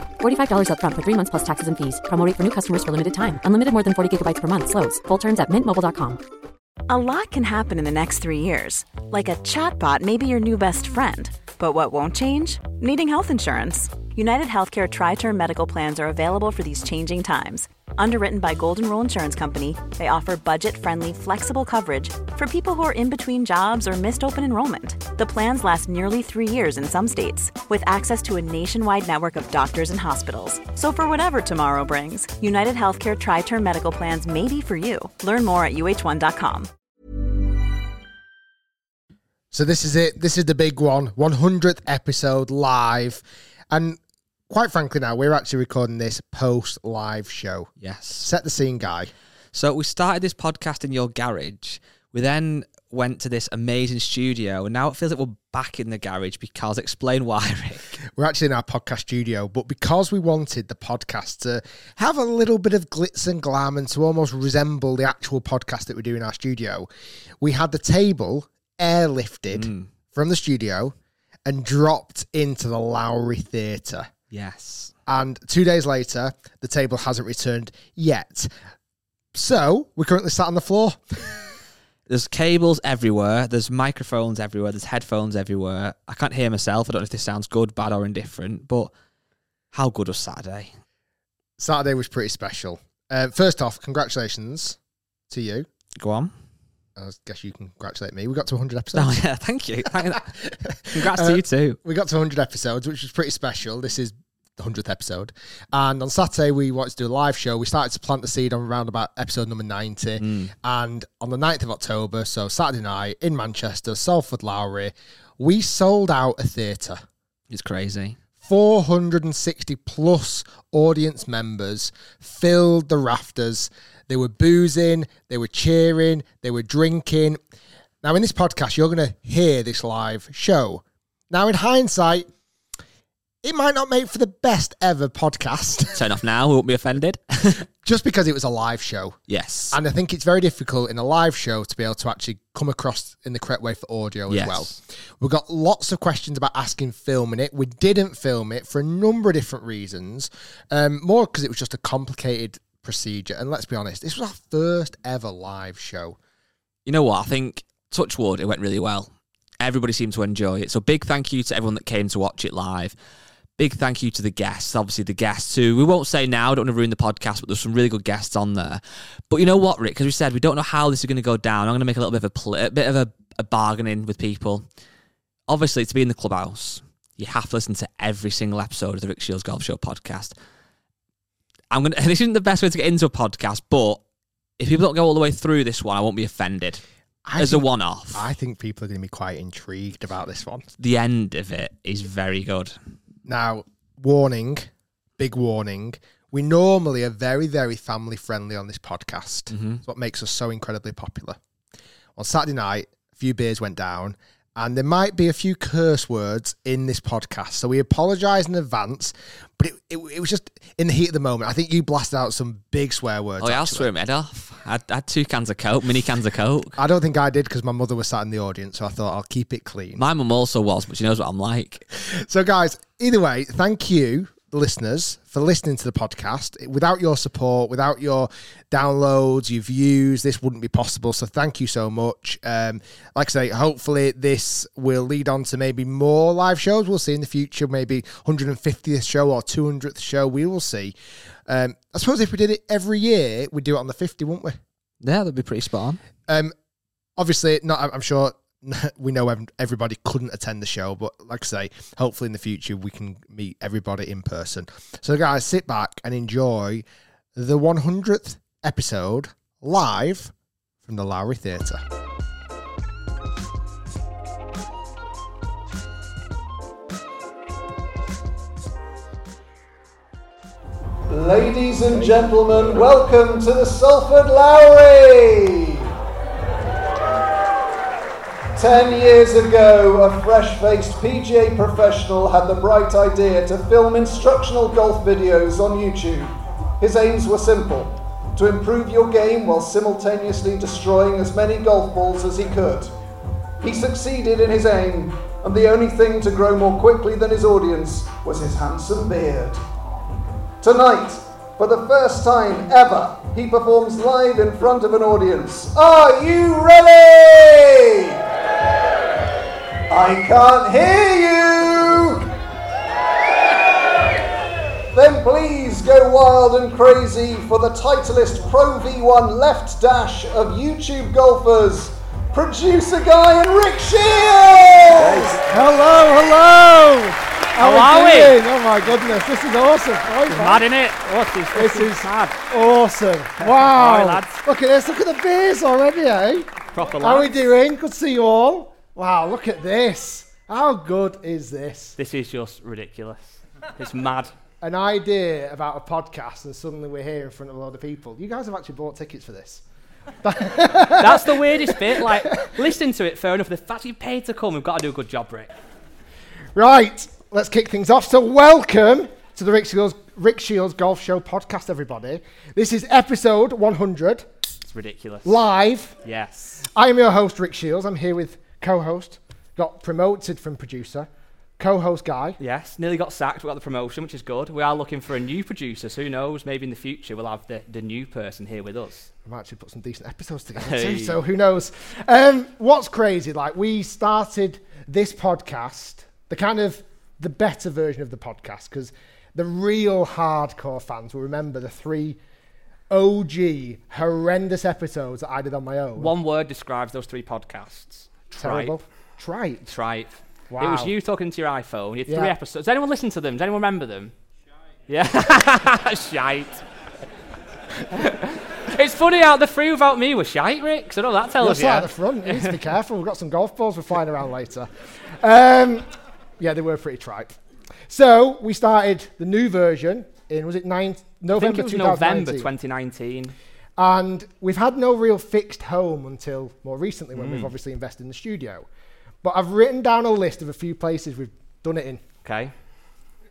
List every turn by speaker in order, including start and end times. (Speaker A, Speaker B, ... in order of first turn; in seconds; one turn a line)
Speaker A: 0.2-6.2
Speaker B: 6.9-36.7
Speaker C: 39.5-49.1
Speaker D: 47.8-48.3
Speaker D: 49.5-58.0
Speaker C: 58.1-66.9
Speaker C: 67.4-74.1
Speaker D: 69.5-69.9
Speaker D: 74.3-74.9
Speaker C: 75.1-78.5
Speaker C: 79.3-81.5
Speaker D: 82.1-88.9
Speaker D: 89.7-90.7
Speaker C: 91.6-94.8
Speaker C: 95.3-95.7
Speaker D: 96.0-96.3
Speaker C: 97.0-99.3
Speaker D: 98.9-100.3
Speaker C: 99.8-117.0
Speaker D: 100.9-101.8
Speaker D: 110.2-110.5
Speaker D: 117.5-118.2
Speaker C: 118.4-127.4
Speaker C: 128.0-132.3
Speaker C: 133.4-135.9
Speaker D: 135.9-137.6
Speaker C: 137.8-139.2
Speaker D: 139.3-139.8
Speaker C: 139.7-156.2
Speaker D: 144.3-144.8
Speaker D: 156.8-162.9
Speaker D: 163.6-174.7
Speaker D: 175.5-180.3
Speaker D: 181.7-184.0
Speaker D: 184.6-186.8
Speaker C: 187.2-190.7
Speaker D: 187.4-188.2
Speaker D: 190.8-192.7
Speaker C: 193.2-201.4
Speaker D: 199.5-199.8
Speaker C: 202.2-213.9
Speaker D: 213.4-216.8
Speaker C: 216.8-220.0
Speaker D: 220.0-221.9
Speaker C: 221.9-240.9
Speaker C: 241.5-244.6
Speaker D: 245.0-246.0
Speaker C: 246.3-246.5
Speaker C: 247.2-260.3
Speaker C: 260.8-261.8
Speaker E: 271.1-275.9
Speaker C: 271.9-272.8
Speaker E: 278.5-292.9
Speaker E: 293.6-299.6
Speaker E: 300.6-308.2
Speaker E: 309.9-312.2
Speaker E: 314.9-325.4
Speaker C: 325.0-330.7
Speaker D: 327.6-328.4
Speaker D: 330.3-332.4
Speaker C: 331.5-342.0
Speaker D: 333.4-334.4
Speaker D: 336.7-337.4
Speaker D: 342.0-344.3
Speaker C: 344.6-349.6
Speaker C: 350.2-352.5
Speaker D: 350.9-355.5
Speaker C: 356.5-364.2
Speaker D: 364.6-365.4
Speaker C: 365.2-365.9
Speaker D: 366.0-366.6
Speaker C: 366.6-372.4
Speaker D: 372.4-379.1
Speaker C: 379.2-392.2
Speaker D: 380.6-381.2
Speaker C: 392.9-396.1
Speaker D: 396.0-398.7
Speaker C: 398.4-399.7
Speaker D: 399.7-404.1
Speaker C: 400.5-400.9
Speaker C: 402.1-402.3
Speaker D: 404.9-406.6
Speaker D: 407.9-412.6
Speaker C: 411.4-415.9
Speaker C: 416.4-417.4
Speaker C: 417.9-422.5
Speaker D: 421.3-423.3
Speaker C: 423.8-428.7
Speaker D: 427.1-427.5
Speaker C: 429.2-432.0
Speaker D: 432.2-432.5